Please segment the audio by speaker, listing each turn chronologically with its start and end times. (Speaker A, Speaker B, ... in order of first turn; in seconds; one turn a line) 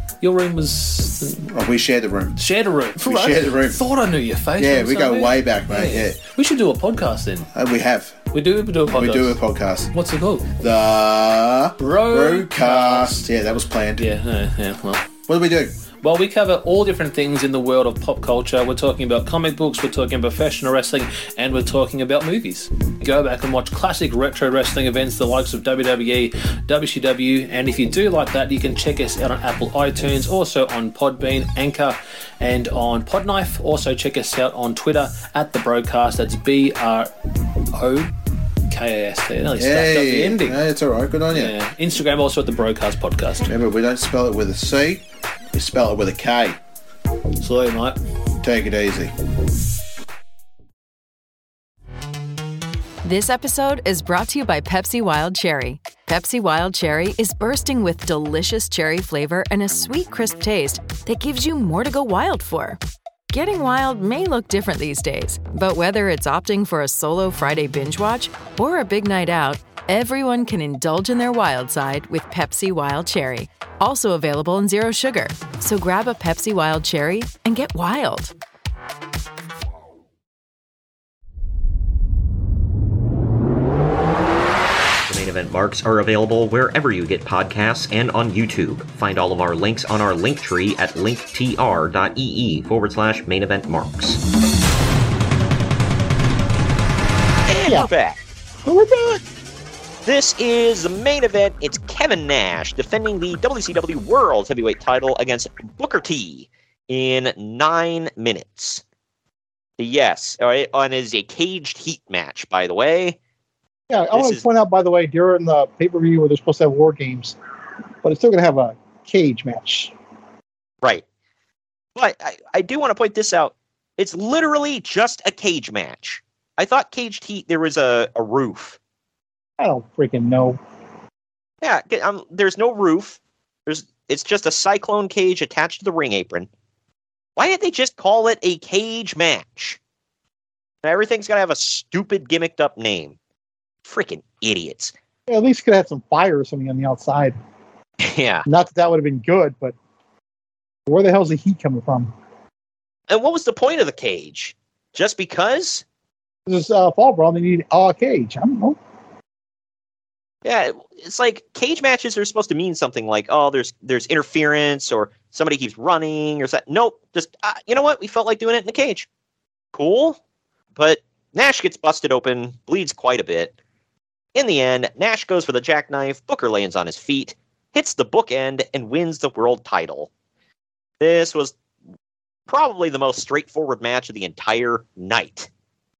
Speaker A: 0.2-1.4
Speaker B: 1.4-3.8
Speaker A: 2.4-7.5
Speaker B: 4.6-6.2
Speaker B: 7.5-8.3
Speaker A: 8.3-9.3
Speaker B: 8.8-9.9
Speaker A: 9.9-10.5
Speaker B: 10.5-14.1
Speaker A: 11.8-13.2
Speaker A: 14.0-15.1
Speaker B: 15.2-15.7
Speaker A: 16.0-37.1
Speaker A: 37.7-38.1
Speaker A: 38.7-40.6
Speaker B: 39.5-41.5
Speaker A: 41.3-43.4
Speaker B: 43.4-46.6
Speaker A: 47.4-48.0
Speaker B: 48.4-49.1
Speaker C: 53.0-62.8
Speaker C: 63.3-78.3
Speaker D: 85.1-94.2
Speaker D: 97.5-98.2
Speaker E: 97.6-97.9
Speaker E: 98.6-99.2
Speaker D: 100.0-108.8
Speaker D: 109.8-113.2
Speaker E: 113.9-117.4
Speaker D: 114.1-114.5
Speaker E: 118.0-119.9
Speaker D: 121.9-128.8
Speaker E: 129.6-130.6
Speaker D: 131.6-136.5
Speaker D: 137.4-139.8
Speaker D: 140.8-143.2
Speaker D: 143.8-144.9
Speaker E: 145.3-147.3
Speaker D: 148.0-148.4
Speaker E: 148.5-149.8
Speaker E: 150.9-152.1
Speaker D: 153.1-155.8
Speaker E: 156.5-158.8
Speaker D: 160.4-169.1
Speaker D: 169.7-170.2
Speaker D: 170.8-173.5
Speaker D: 174.3-180.1
Speaker D: 181.0-181.5
Speaker D: 182.5-185.5